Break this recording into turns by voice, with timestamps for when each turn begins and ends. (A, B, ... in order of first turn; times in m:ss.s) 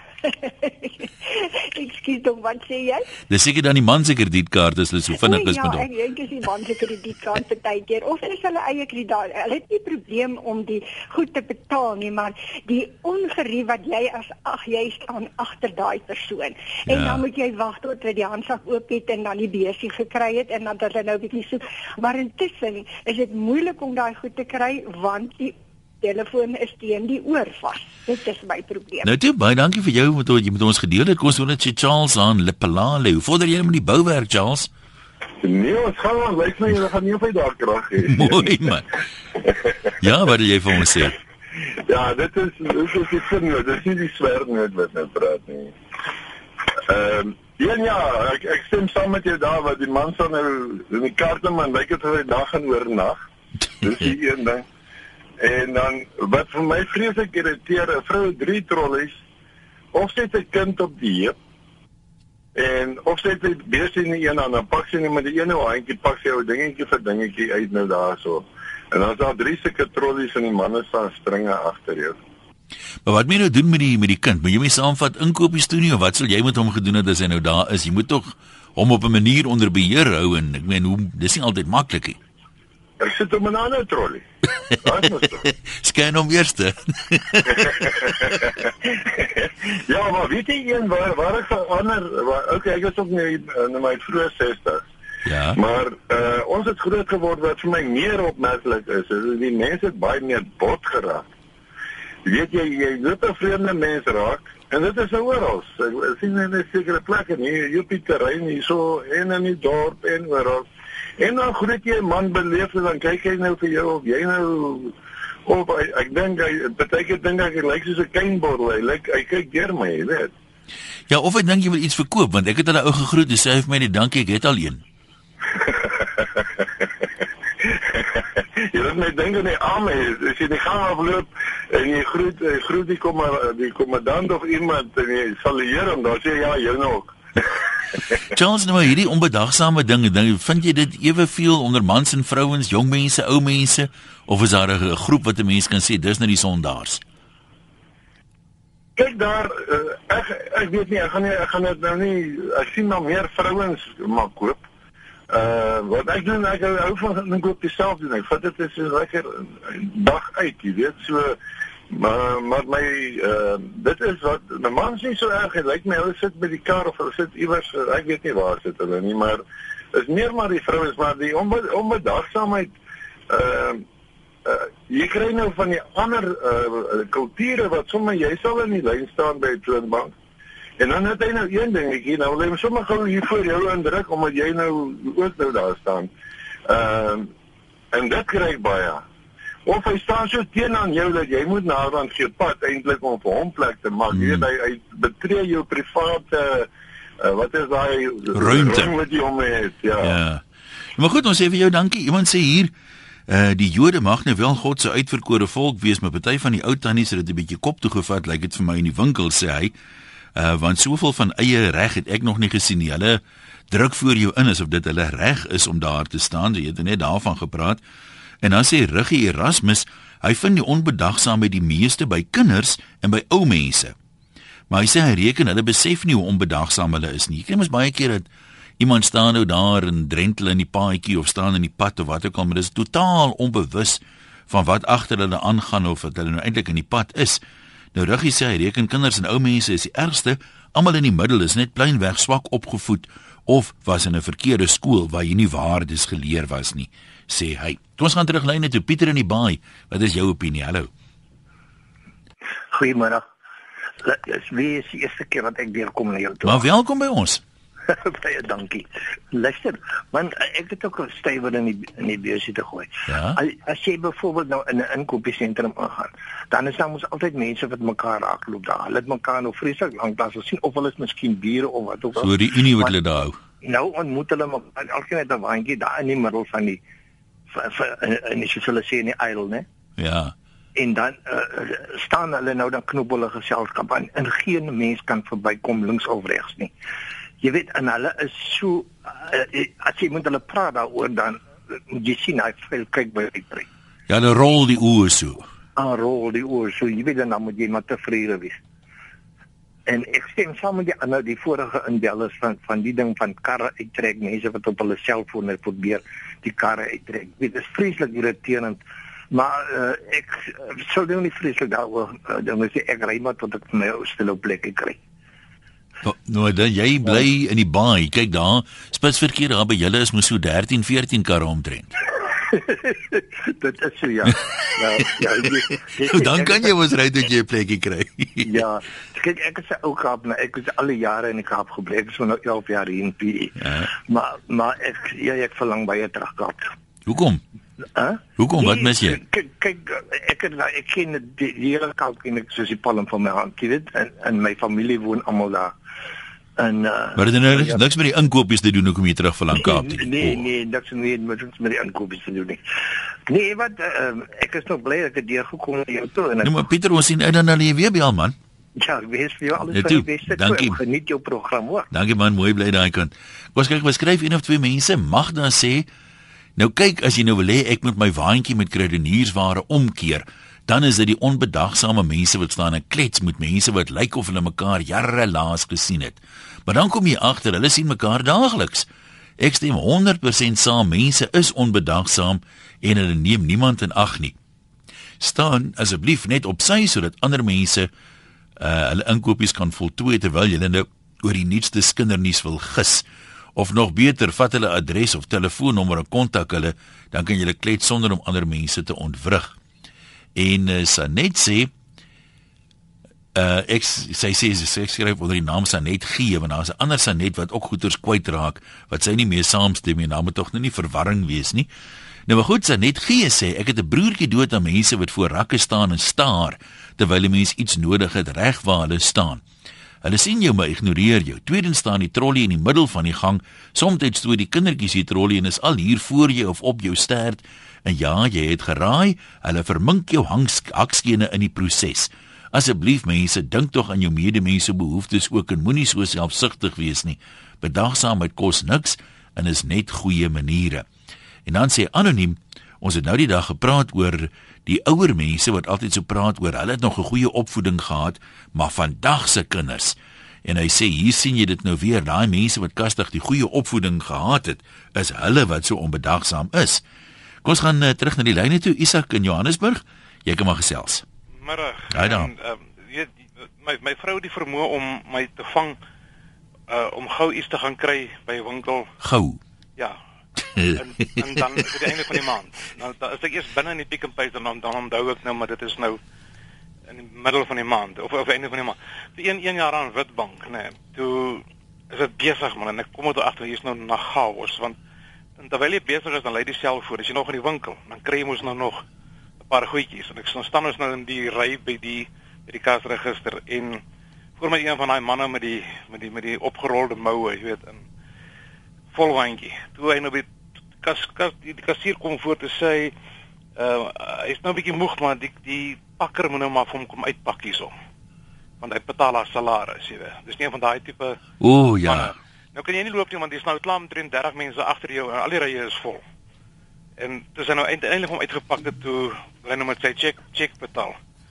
0:00.3-0:03.1 A
0:03.3-0:05.9 B
0:05.1-0:29.1 A
0:16.9-0:17.2 B
0:29.0-0:34.7 B
0:35.4-0:38.5 C
0:38.0-0:38.9 B
0:40.0-0:41.2 B
0:41.9-0:45.7 C
0:46.8-0:53.2 C
0:53.8-0:54.6 C
0:55.4-0:59.2 C
0:59.9-1:01.4 C
1:02.5-1:12.2 C
1:13.0-1:22.2 B
1:23.0-1:25.5 C
1:25.4-1:28.4 B
1:27.6-1:34.8 C
1:35.2-1:35.6 B
1:35.6-1:41.2 C
1:42.2-1:50.6 C
1:51.2-1:54.9 C
1:55.5-2:00.3 C
2:01.1-2:04.8 B
2:05.5-2:06.9 C
2:07.6-2:17.6 C
2:18.3-2:27.0 B
2:29.0-2:34.6 C
2:35.3-2:41.4 C
2:41.9-2:49.4 C
2:49.9-2:52.7 C
2:53.3-2:53.8 C
2:54.4-3:00.1 C
3:00.8-3:06.1 C
3:06.7-3:07.3 C
3:07.9-3:09.0 C
3:09.7-3:16.7 C
3:14.1-3:14.5 B
3:17.2-3:20.2 C
3:18.3-3:18.9 B
3:20.0-3:20.4 B
3:21.0-3:22.7 B
3:23.3-3:29.7 B
3:30.4-3:33.2 B
3:33.7-3:37.8 B
3:38.4-3:43.9 B
3:44.7-3:48.3 B
3:48.8-3:57.4 B
3:57.9-4:10.9 B
4:12.7-4:13.2 D
4:14.0-4:16.6 D
4:16.4-4:17.4 B
4:17.9-4:32.9 D
4:23.1-4:23.4 B
4:32.2-4:33.4 B
4:33.6-4:36.8 D
4:37.5-4:39.6 D
4:40.0-4:40.3 B
4:40.8-4:46.7 D
4:47.4-4:53.7 D
4:54.1-4:55.5 B
4:55.8-4:58.6 D
4:59.9-5:08.8 D
5:09.3-5:15.0 D
5:16.0-5:21.9 B
5:22.5-5:26.7 D
5:26.1-5:28.5 B
5:28.4-5:36.7 D
5:33.6-5:33.9 B
5:37.0-5:37.4 B
5:37.9-5:45.8 D
5:38.4-5:39.2 B
5:46.6-5:47.8 D
5:47.2-5:50.4 B
5:49.5-5:52.6 D
5:53.3-5:56.6 D
5:56.4-5:58.4 B
5:58.8-6:01.9 D
5:59.7-6:00.8 B
6:01.9-6:05.9 B
6:06.6-6:18.9 B
6:19.4-6:24.4 B
6:25.2-6:27.9 B
6:28.6-6:33.0 B
6:33.6-6:39.6 B
6:40.4-6:41.7 B
6:43.3-6:51.7 B
6:52.3-6:59.4 B
7:00.0-7:20.8 B
7:21.4-7:36.8 B
7:37.4-7:41.0 B
7:41.4-7:45.8 E
7:41.9-7:42.3 B
7:46.7-7:48.9 E
7:49.0-7:49.4 B
7:50.5-7:50.8 B
7:50.7-7:56.0 E
7:56.9-8:04.8 E
8:05.4-8:08.8 E
8:09.4-8:13.8 E
8:14.4-8:17.8 E
8:18.9-8:20.2 E
8:20.8-8:22.9 E
8:23.6-8:27.7 E
8:28.6-8:31.2 E
8:31.4-8:32.1 B
8:31.8-8:36.0 E
8:37.0-8:41.0 E